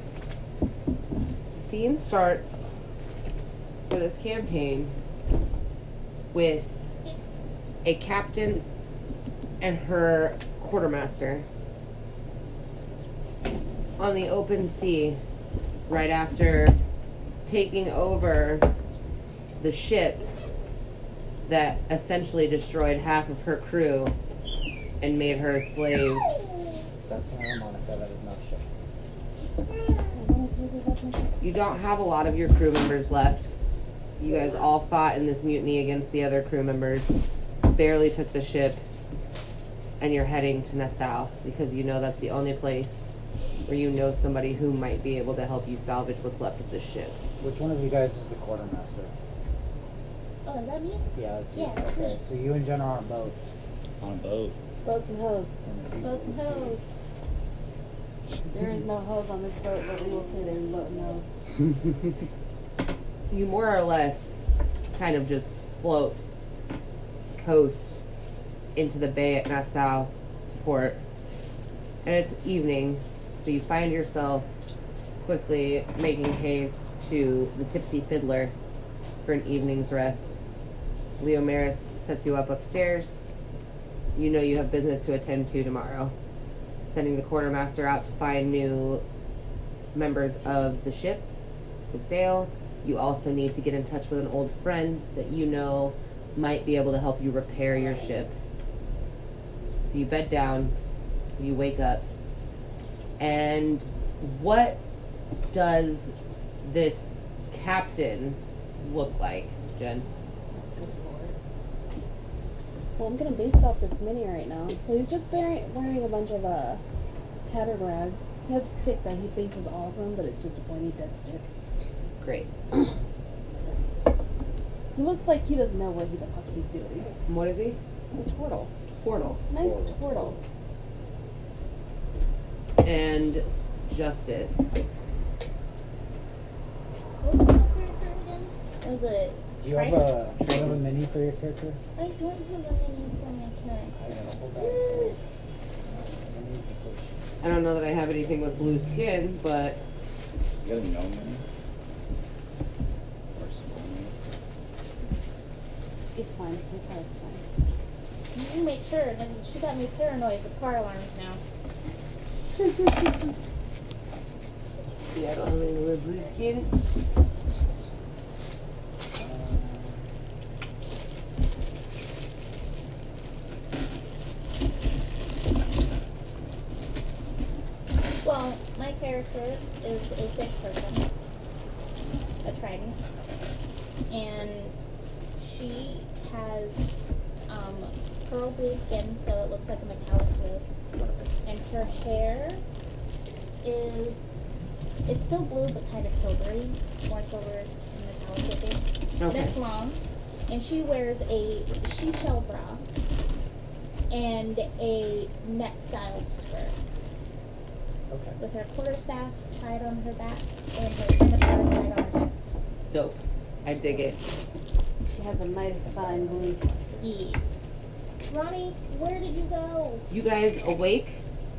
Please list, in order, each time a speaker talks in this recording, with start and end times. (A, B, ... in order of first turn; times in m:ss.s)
0:01.5-0:02.7 A
0:03.9-0:04.9 A
0:06.3-0:06.7 A
0:07.8-0:08.6 A
0:09.6-0:11.4 A
0:14.0-0:15.2 A
0:15.9-0:16.8 A
0:17.4-0:18.7 A
0:19.6-0:20.2 A
0:21.4-0:24.1 A
0:25.0-0:26.3 A
0:27.1-0:28.6 B
0:30.1-0:31.4 C
0:31.4-0:33.5 A
0:34.2-0:37.1 A
0:37.6-0:38.8 A
0:40.0-0:43.1 A
0:43.6-0:47.2 A
0:47.4-0:49.1 B
0:50.4-0:52.2 D
0:51.1-0:53.4 B
0:54.0-0:54.6 E
0:54.8-0:55.5 C
0:55.6-0:56.8 B
0:56.0-0:56.8 D
0:58.5-1:01.3 C
1:03.3-1:04.4 A
1:04.9-1:06.2 A
1:07.4-1:08.0 A
1:08.7-1:11.0 A
1:12.0-1:14.4 A
1:15.2-1:18.5 A
1:19.2-1:20.4 A
1:21.2-1:23.2 A
1:24.1-1:26.1 A
1:26.9-1:29.0 A
1:29.9-1:31.2 A
1:31.9-1:38.3 A
1:39.8-1:40.7 A
1:41.4-1:42.0 A
1:43.2-1:44.8 A
1:45.5-1:50.1 A
1:50.5-1:51.4 C
1:53.0-1:56.8 C
1:57.4-2:01.5 C
2:02.2-2:02.5 A
2:04.9-2:07.1 C
2:07.3-2:09.4 A
2:09.5-2:10.4 C
2:09.6-2:10.4 E
2:12.8-2:14.6 A
2:17.2-2:20.2 D
2:19.6-2:21.8 B
2:20.4-2:20.8 A
2:22.0-2:24.0 D
2:23.9-2:25.2 B
2:24.5-2:25.2 D
2:26.2-2:27.0 B
2:27.4-2:29.8 A
2:30.6-2:31.4 E
2:33.3-2:34.2 E
2:36.1-2:37.4 C
2:38.3-2:41.4 D
2:45.1-2:46.7 A
2:58.2-3:01.1 D
3:02.4-3:03.0 D
3:04.1-3:04.7 D
3:05.4-3:10.7 D
3:11.0-3:11.3 B
3:11.4-3:12.6 D
3:13.6-3:14.3 D
3:15.0-3:22.8 D
3:19.2-3:19.6 A
3:24.1-3:26.8 D
3:28.1-3:28.4 B
3:28.4-3:32.3 D
3:32.9-3:34.2 A
3:35.1-3:36.6 C
3:35.8-3:37.2 B
3:37.0-3:37.4 D
3:38.3-3:40.1 D
3:40.1-3:41.2 A